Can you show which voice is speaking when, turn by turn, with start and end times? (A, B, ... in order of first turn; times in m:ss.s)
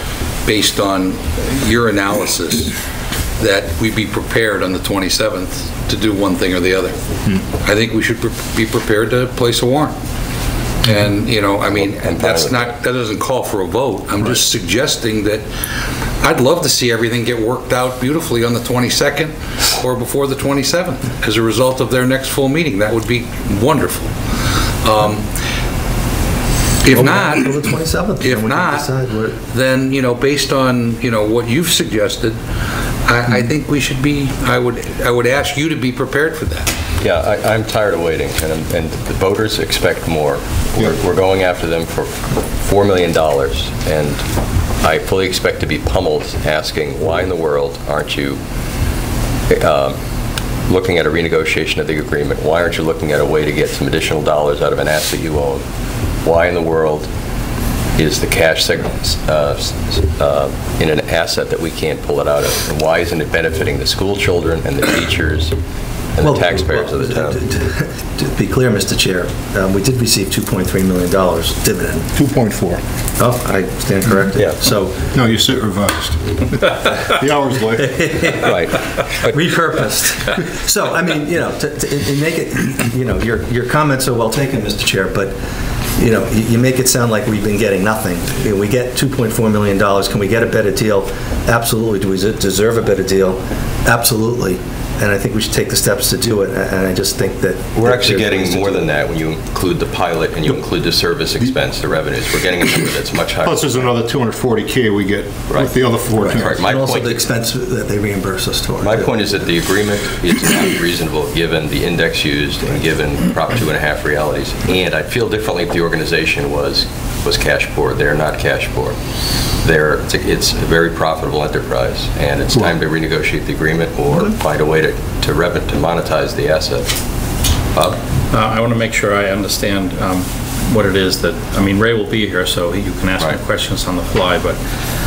0:00.4-0:02.8 A
0:03.4-0:07.0 A
0:07.5-0:10.0 A
0:10.8-0:15.4 A
0:11.7-0:12.7 B
0:16.2-0:25.3 A
0:26.8-0:27.6 A
0:26.9-0:29.4 C
0:28.2-0:32.4 A
0:33.0-0:36.7 A
0:37.0-0:44.2 B
0:44.8-0:48.4 B
0:49.5-0:50.0 B
0:50.7-0:55.6 B
0:56.2-0:57.1 B
0:58.0-1:05.5 B
1:06.2-1:07.4 B
1:06.2-1:12.1 C
1:12.2-1:12.8 D
1:13.2-1:15.1 C
1:15.1-1:18.0 D
1:17.8-1:25.4 C
1:18.4-1:19.3 B
1:26.0-1:38.9 C
1:37.8-1:43.9 B
1:43.4-1:46.6 D
1:45.5-1:47.2 B
1:46.2-1:49.3 C
1:48.8-1:59.0 B
1:59.6-2:07.0 B
2:07.7-2:08.0 B
2:08.3-2:14.6 E